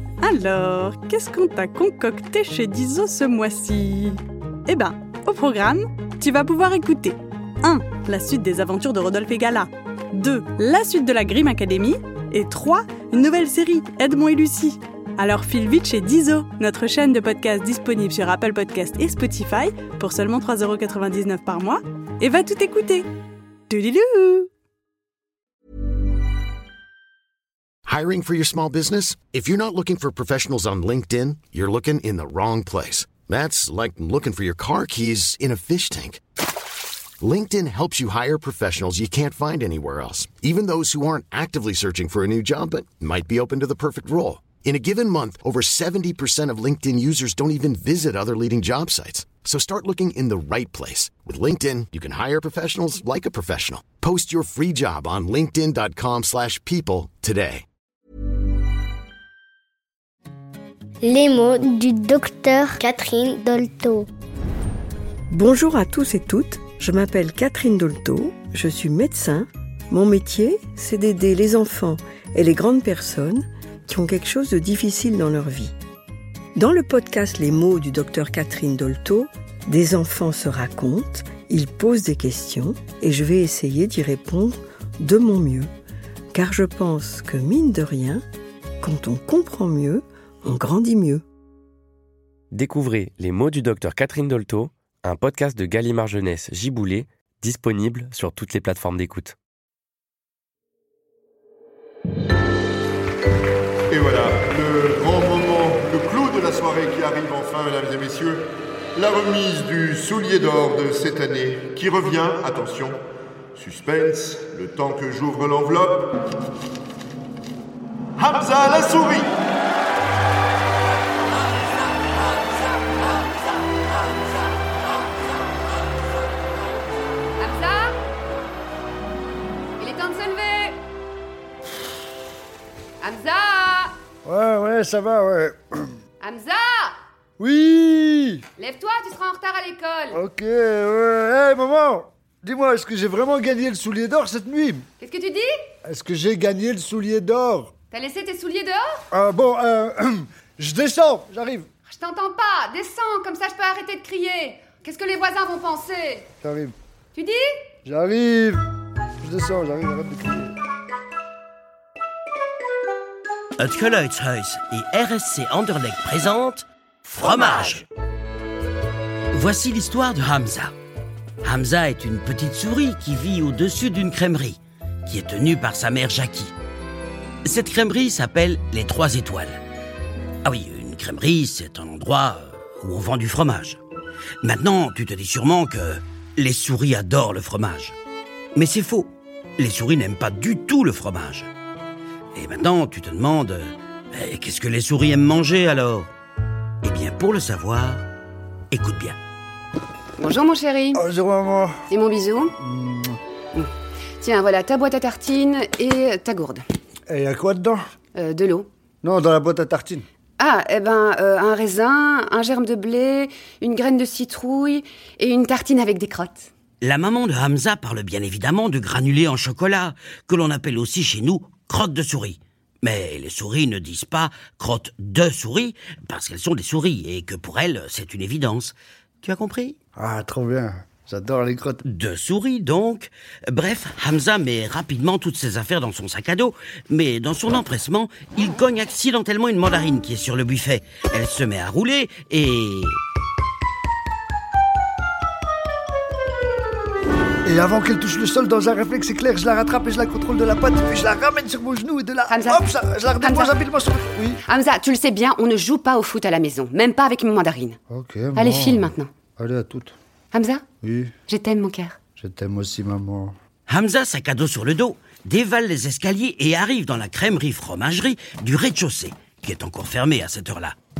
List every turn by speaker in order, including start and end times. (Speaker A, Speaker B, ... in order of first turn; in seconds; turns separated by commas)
Speaker A: 0.2-23.1, Speaker A: 23.7-24.5, Speaker B: 27.9-36.2, Speaker B: 37.2-57.6, Speaker C: 61.8-64.0, Speaker D: 65.3-75.7, Speaker D: 76.5-85.7, Speaker D: 86.3-88.2, Speaker D: 88.8-91.2, Speaker E: 92.5-99.3, Speaker F: 103.9-113.0, Speaker F: 113.5-116.1, Speaker F: 118.2-119.3, Speaker G: 127.4-127.9, Speaker G: 129.8-130.8, Speaker G: 133.0-133.9, Speaker H: 134.2-135.8, Speaker G: 136.2-136.9, Speaker H: 137.4-138.4, Speaker G: 138.6-140.2, Speaker H: 140.1-144.8, Speaker G: 145.0-145.5, Speaker H: 145.8-147.7, Speaker G: 147.9-148.8, Speaker H: 149.1-151.7, Speaker G: 151.9-156.3, Speaker H: 156.4-156.7, Speaker G: 157.1-157.4, Speaker H: 157.8-158.6, Speaker H: 159.2-160.5, Speaker I: 163.6-167.8, Speaker I: 169.3-170.7, Speaker I: 171.4-176.5, Speaker I: 177.4-179.6, Speaker I: 180.4-183.8, Speaker I: 184.4-187.9, Speaker I: 188.5-191.5, Speaker I: 192.3-196.1, Speaker I: 196.8-198.0, Speaker I: 198.7-199.2, Speaker G: 200.2-201.0, Speaker H: 200.9-201.8, Speaker G: 201.9-202.5, Speaker H: 202.6-203.2, Speaker G: 203.5-206.6, Speaker H: 207.1-207.8, Speaker G: 208.2-208.7, Speaker H: 209.0-210.0, Speaker G: 210.4-216.5, Speaker I: 216.8-229.8, Speaker H: 229.9-231.8, Speaker I: 231.8-243.0, Speaker H: 247.4-254.4, Speaker G: 252.3-252.7, Speaker G: 253.2-253.6, Speaker G: 254.4-257.8, Speaker H: 257.9-259.9, Speaker G: 258.3-259.1, Speaker G: 260.3-260.6, Speaker H: 260.8-261.1, Speaker G: 261.3-262.0, Speaker H: 262.2-263.3, Speaker I: 263.7-270.8